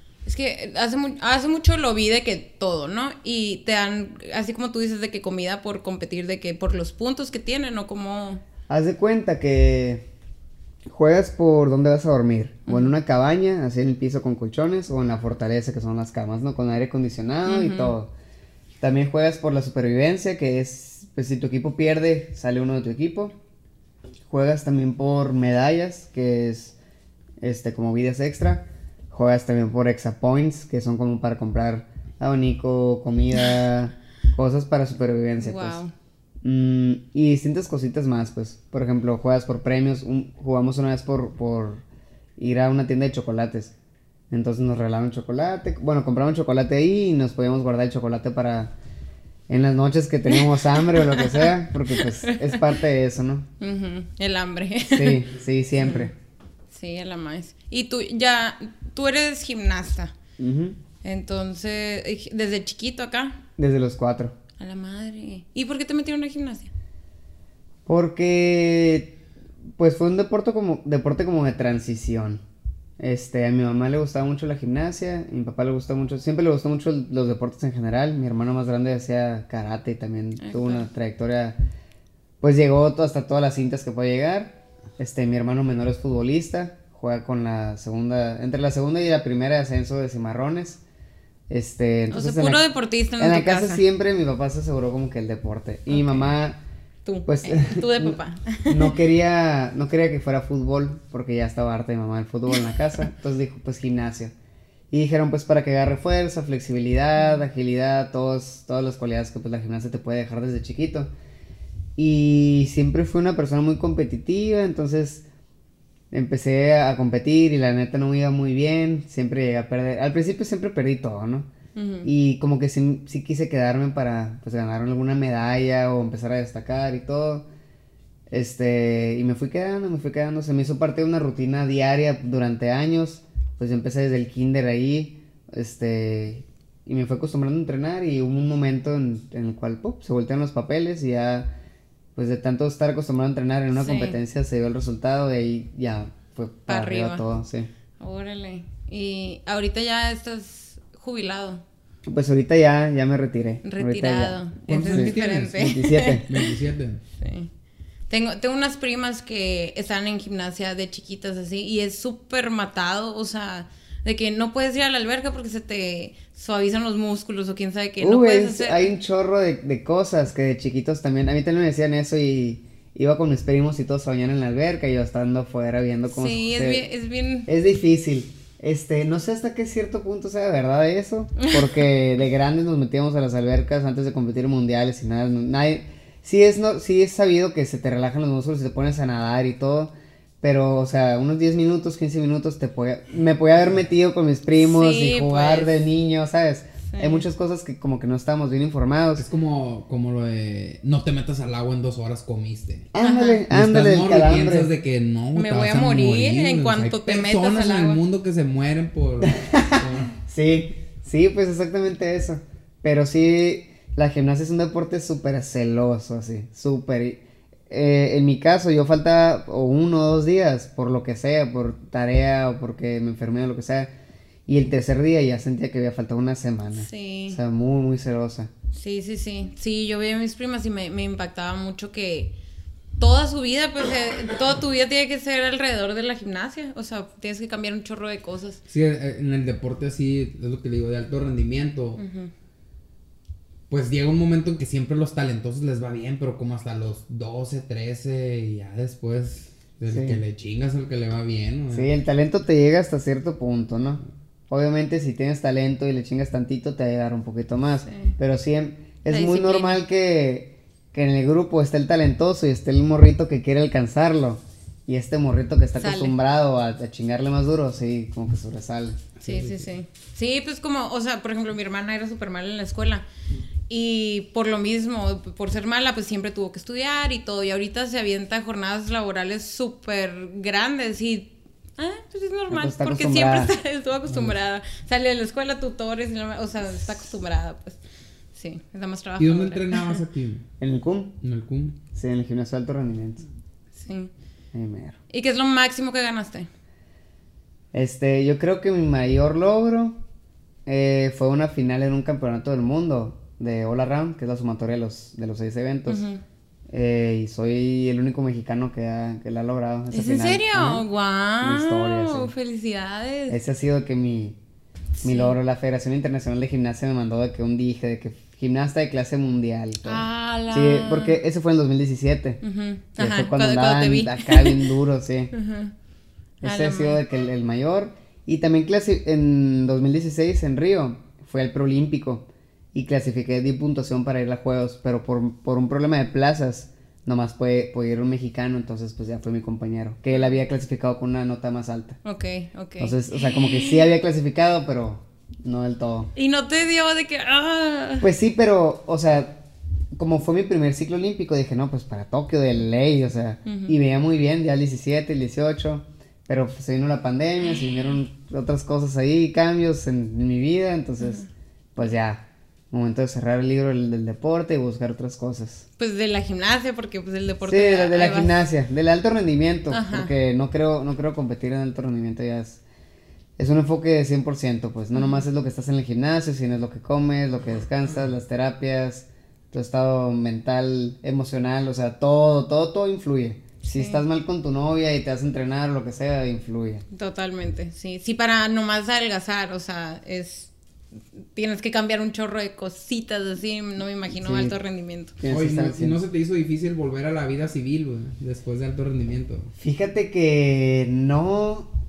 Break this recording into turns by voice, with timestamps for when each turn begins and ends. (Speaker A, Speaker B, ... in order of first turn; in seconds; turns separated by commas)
Speaker A: 0.2-8.4, Speaker B: 8.7-10.0, Speaker B: 10.9-18.1, Speaker A: 12.7-12.9, Speaker A: 17.4-17.9, Speaker B: 18.8-23.4, Speaker B: 24.3-26.8, Speaker B: 27.4-35.8, Speaker A: 35.4-35.9, Speaker B: 36.4-41.8, Speaker B: 42.4-43.7, Speaker B: 44.3-48.7, Speaker B: 49.5-53.5, Speaker A: 50.3-52.6, Speaker A: 53.6-55.2, Speaker B: 54.9-56.1, Speaker A: 56.7-60.1, Speaker B: 60.4-60.8, Speaker A: 61.0-63.4, Speaker B: 63.6-64.3, Speaker A: 64.6-66.7, Speaker B: 67.8-69.2, Speaker B: 69.8-72.4, Speaker B: 73.0-81.6, Speaker A: 80.4-80.9, Speaker B: 82.4-90.8, Speaker B: 91.5-92.6, Speaker A: 92.1-93.8, Speaker B: 93.2-96.6, Speaker A: 95.9-96.3, Speaker A: 97.0-99.0, Speaker B: 97.3-98.2, Speaker B: 98.7-104.3, Speaker B: 104.9-111.1, Speaker B: 112.0-115.2, Speaker B: 116.1-121.5, Speaker A: 121.8-122.1, Speaker B: 122.0-127.5, Speaker B: 128.3-141.5, Speaker B: 142.2-147.7, Speaker A: 143.7-144.2, Speaker A: 146.7-147.2, Speaker A: 148.0-151.6, Speaker B: 152.1-156.2, Speaker A: 153.6-156.5, Speaker C: 154.7-157.0, Speaker A: 157.2-157.5, Speaker A: 158.1-168.9, Speaker B: 168.0-176.8, Speaker A: 176.1-177.5, Speaker B: 177.4-199.2, Speaker A: 181.4-181.7, Speaker A: 194.6-195.9, Speaker A: 196.9-197.2, Speaker C: 199.2-202.9, Speaker B: 202.9-204.7, Speaker A: 203.0-203.4, Speaker C: 203.5-210.1, Speaker A: 205.3-208.0, Speaker B: 209.2-223.9, Speaker B: 224.5-228.5, Speaker A: 226.7-227.4, Speaker A: 228.7-232.3, Speaker A: 233.0-238.6, Speaker C: 238.7-242.0, Speaker A: 242.0-242.3, Speaker C: 243.7-251.9, Speaker B: 249.9-250.2, Speaker B: 251.7-269.0, Speaker A: 257.8-258.1, Speaker A: 259.1-259.8, Speaker A: 265.8-266.1, Speaker C: 269.2-269.7, Speaker A: 269.2-273.1, Speaker A: 273.7-287.8, Speaker B: 282.5-283.6, Speaker A: 288.3-290.0, Speaker C: 289.2-290.5, Speaker B: 290.6-291.1, Speaker C: 291.2-291.8, Speaker B: 291.9-293.2, Speaker A: 293.8-294.1, Speaker B: 294.5-295.0, Speaker A: 295.1-296.5, Speaker B: 297.7-300.0, Speaker B: 300.6-306.0, Speaker A: 305.9-306.2, Speaker B: 306.7-310.8, Speaker A: 309.9-313.4, Speaker B: 311.4-312.3, Speaker B: 313.3-314.4, Speaker A: 315.0-315.4, Speaker B: 315.0-322.4, Speaker A: 319.8-321.2, Speaker A: 322.4-324.7, Speaker B: 323.0-325.3, Speaker A: 325.3-325.7, Speaker A: 326.4-327.0, Speaker B: 326.4-342.0, Speaker A: 342.0-343.9, Speaker B: 342.8-346.1, Speaker A: 346.1-348.1, Speaker B: 348.0-349.4, Speaker B: 349.9-361.2, Speaker A: 353.4-353.7, Speaker B: 361.8-365.7, Speaker A: 365.8-368.4, Speaker B: 367.4-372.6, Speaker A: 369.7-370.1, Speaker B: 373.4-386.8, Speaker A: 374.9-375.2, Speaker A: 383.6-384.0, Speaker A: 386.9-390.5, Speaker A: 391.3-395.1, Speaker B: 394.1-394.5, Speaker B: 395.2-396.0, Speaker C: 395.2-399.5, Speaker B: 399.6-401.7